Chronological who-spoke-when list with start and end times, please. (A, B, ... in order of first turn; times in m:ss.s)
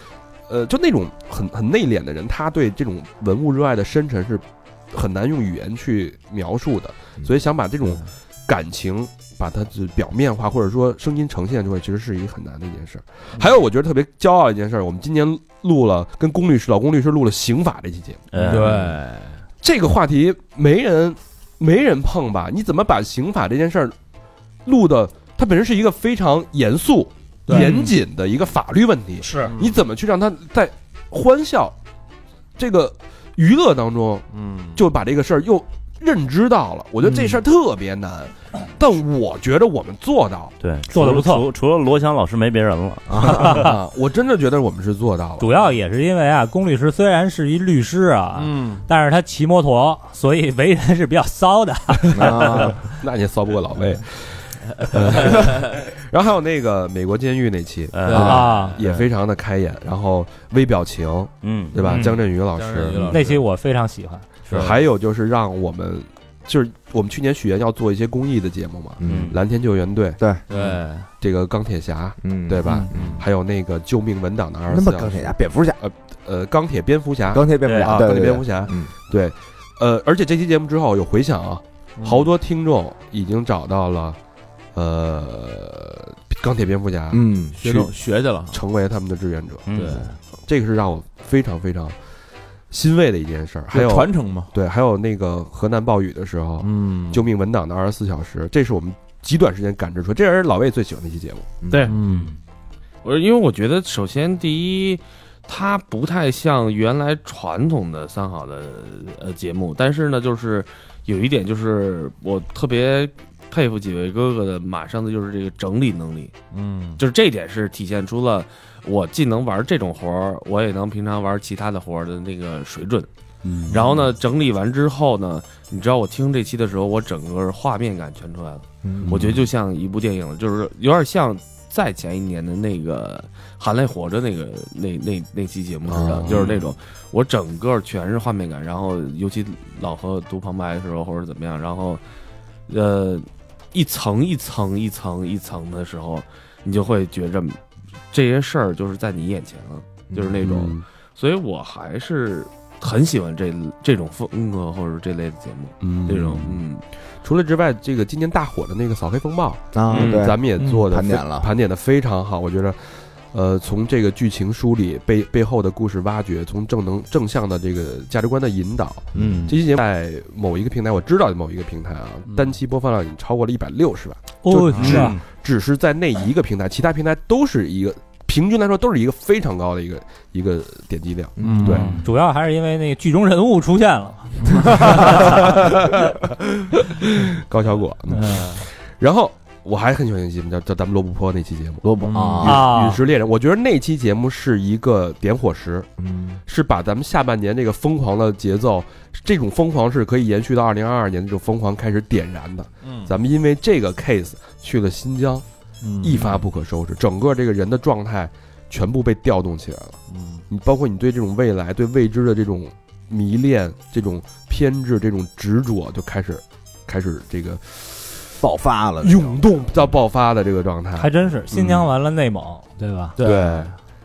0:00.5-0:18.6 A
0:18.3-0:18.8 B
0:18.4-0:19.4 C
0:19.6-0:24.0 A
0:24.6-0:31.8 A
0:27.5-0:28.0 C
0:29.2-0:29.5 D
0:29.5-0:29.8 C
0:32.6-0:40.6 A
0:34.3-0:34.8 C
0:40.6-0:43.6 B
0:40.9-0:41.5 D
0:43.1-0:43.5 E
0:43.3-0:43.7 D
0:43.4-0:45.5 A
0:45.4-0:52.7 D
0:48.4-0:48.8 C
0:52.1-0:52.8 E
0:52.3-1:03.2 A
0:54.7-0:55.7 C
0:57.9-0:58.4 B
0:58.1-0:59.1 C
0:58.2-0:58.8 D
1:01.4-1:01.8 B
1:01.8-1:02.2 D
1:02.5-1:03.4 C
1:03.1-1:04.3 D
1:04.5-1:04.7 B
1:04.5-1:04.8 C
1:04.5-1:10.2 A
1:09.0-1:09.4 E
1:09.1-1:09.4 B
1:10.5-1:11.1 C
1:11.2-1:24.2 A
1:12.2-1:13.2 E
1:12.7-1:13.2 C
1:14.7-1:15.8 E
1:17.3-1:18.9 E
1:17.6-1:18.0 B
1:22.0-1:22.3 C
1:24.7-1:27.9 A
1:27.1-1:27.6 E
1:27.6-1:28.6 C
1:28.5-1:29.7 A
1:29.7-1:30.1 B
1:29.7-1:30.2 C
1:30.4-1:32.0 A
1:32.7-1:41.6 A
1:33.7-1:34.5 C
1:36.6-1:37.3 C
1:41.6-1:41.9 E
1:41.7-1:42.0 F
1:41.8-1:42.3 C
1:42.1-1:42.3 B
1:43.0-1:56.4 F
1:56.5-1:57.0 C
1:57.0-2:03.1 F
2:03.4-2:04.0 A
2:03.7-2:22.0 F
2:08.8-2:09.2 E
2:09.0-2:09.5 A
2:15.9-2:16.7 A
2:22.7-2:36.8 F
2:30.1-2:30.4 E
2:30.4-2:30.8 A
2:35.8-2:36.6 A
2:37.2-3:01.9 A
2:39.7-2:41.5 E
2:39.9-2:40.3 F
2:49.2-2:49.5 E
2:49.2-2:49.6 C
2:54.4-2:55.2 D
2:54.7-2:55.1 C
2:54.8-2:55.1 B
3:01.4-3:01.8 E
3:01.4-3:02.1 C
3:01.7-3:05.5 D
3:04.6-3:04.9 C
3:05.0-3:11.9 A
3:08.2-3:08.6 C
3:11.8-3:12.7 E
3:12.0-3:12.6 C
3:12.4-3:15.9 A
3:12.4-3:13.0 D
3:16.0-3:16.4 E
3:16.5-3:25.4 A
3:22.8-3:23.2 C
3:25.8-3:26.4 C
3:26.0-3:38.4 A
3:30.1-3:30.4 C
3:38.4-3:39.5 E
3:39.0-3:41.9 A
3:41.0-3:43.2 D
3:43.2-3:43.7 C
3:43.2-3:43.7 A